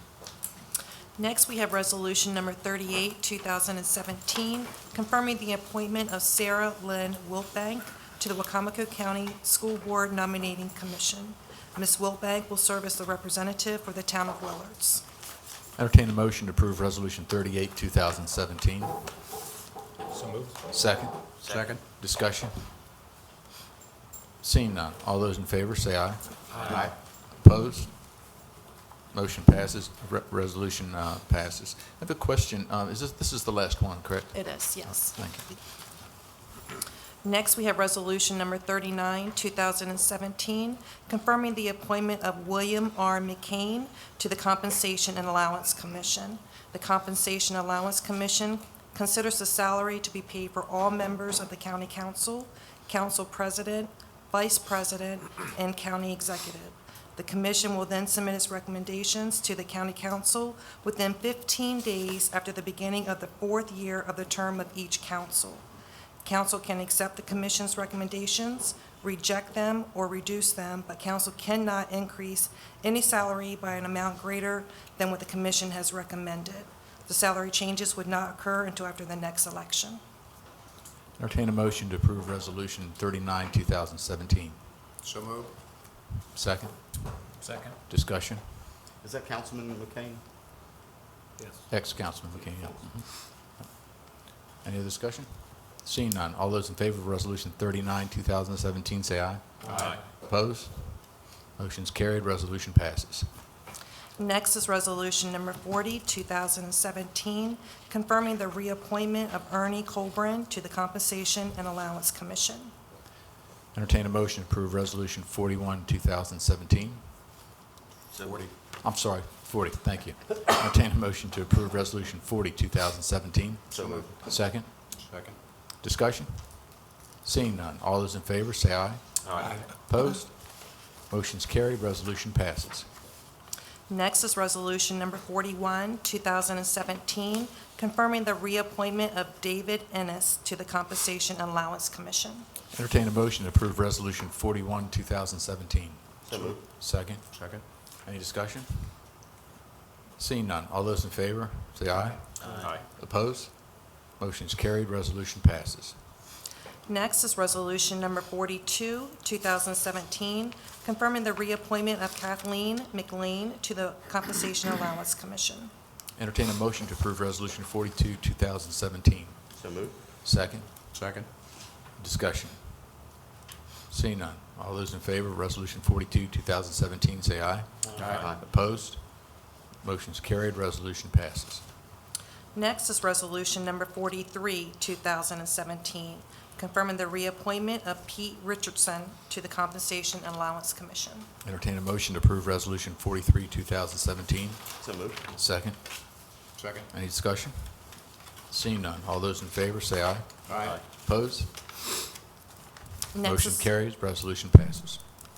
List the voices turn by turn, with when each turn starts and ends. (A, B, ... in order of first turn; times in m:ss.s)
0:01.2-0:15.1 A
0:15.8-0:19.1 B
0:20.1-0:20.6 C
0:20.7-0:22.8 B
0:21.4-0:21.8 C
0:21.4-0:21.7 D
0:24.4-0:28.2 B
0:26.7-0:27.0 D
0:29.1-0:35.5 B
0:34.3-0:35.6 A
0:37.2-1:05.6 A
1:06.2-1:20.0 A
1:21.2-1:24.6 B
1:25.0-1:25.6 C
1:26.3-1:27.3 B
1:27.9-1:28.6 B
1:29.0-1:30.2 D
1:31.7-1:33.7 B
1:34.5-1:43.3 B
1:39.7-1:40.0 C
1:44.2-1:52.7 A
1:53.7-1:57.0 B
1:58.1-1:58.5 D
1:58.8-2:05.0 B
2:03.7-2:04.2 D
2:05.0-2:05.4 C
2:05.8-2:12.9 B
2:09.2-2:09.6 D
2:09.4-2:09.7 C
2:13.9-2:22.5 A
2:22.7-2:29.0 B
2:26.3-2:26.6 D
2:26.3-2:26.6 C
2:27.2-2:27.6 C
2:30.2-2:36.0 B
2:32.0-2:32.8 C
2:32.4-2:32.8 D
2:36.9-2:45.7 A
2:46.2-2:49.5 B
2:49.6-2:50.0 D
2:50.2-2:50.7 B
2:50.9-2:51.3 C
2:52.0-2:52.8 B
2:53.9-3:01.6 B
2:57.9-2:58.4 D
2:58.0-2:58.3 C
3:02.6-3:11.3 A
3:11.4-3:16.3 B
3:14.8-3:15.2 D
3:16.6-3:16.9 C
3:16.9-3:21.5 B
3:20.5-3:20.8 C
3:20.5-3:20.8 D
3:23.1-3:23.7 A
3:23.2-3:25.0 B